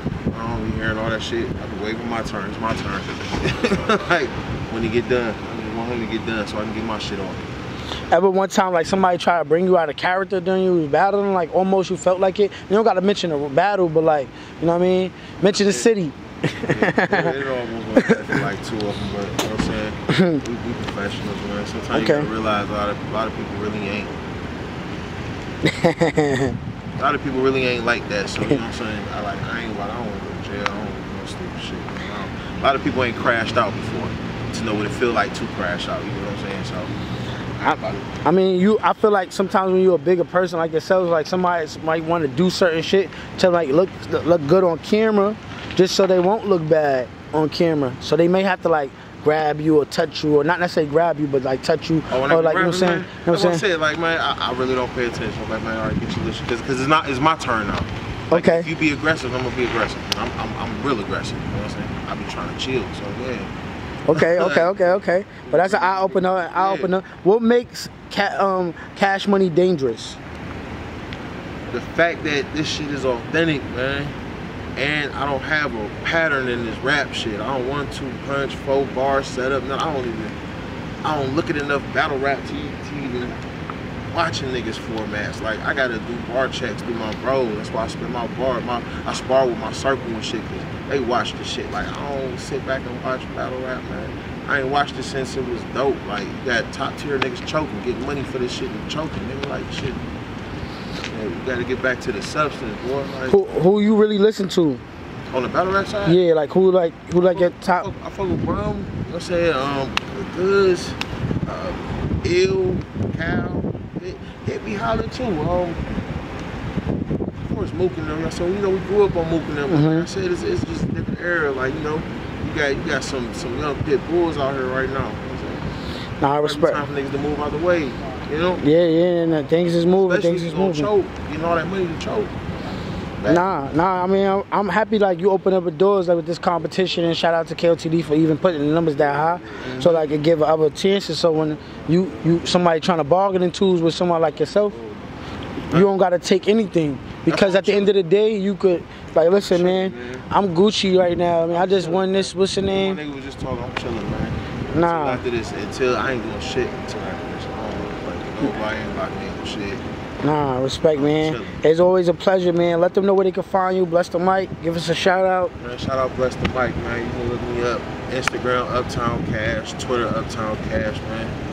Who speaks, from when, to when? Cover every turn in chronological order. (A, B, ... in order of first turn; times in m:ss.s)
0:00.3-0:07.5 A
0:08.1-0:17.4 B
0:15.4-0:15.9 A
0:16.6-0:24.2 A
0:18.0-0:18.4 B
0:20.1-0:20.4 B
0:21.9-0:22.3 B
0:25.6-0:26.6 B
0:27.0-0:36.9 A
0:37.6-0:53.6 B
0:37.6-0:38.0 A
0:52.1-1:03.5 A
0:58.3-0:58.7 B
1:04.1-1:10.2 B
1:04.1-1:06.9 A
1:11.7-1:14.2 A
1:14.8-1:20.4 A
1:21.0-1:23.4 A
1:24.1-1:40.0 A
1:41.1-1:43.4 A
1:43.3-1:44.8 B
1:45.3-1:46.2 A
1:46.0-1:47.9 B
1:47.2-1:55.9 A
1:57.4-2:05.7 A
1:59.7-2:00.1 B
2:06.2-2:06.8 B
2:06.3-2:08.6 A
2:08.6-2:10.9 B
2:10.0-2:12.4 A
2:13.1-2:13.5 A
2:13.3-2:24.8 B
2:19.6-2:20.1 A
2:25.7-2:33.0 B
2:27.3-2:27.9 A
2:29.4-2:30.2 A
2:31.5-2:39.8 A
2:34.7-2:35.2 B
2:40.2-2:45.5 B
2:40.9-2:41.6 A
2:45.6-2:51.4 A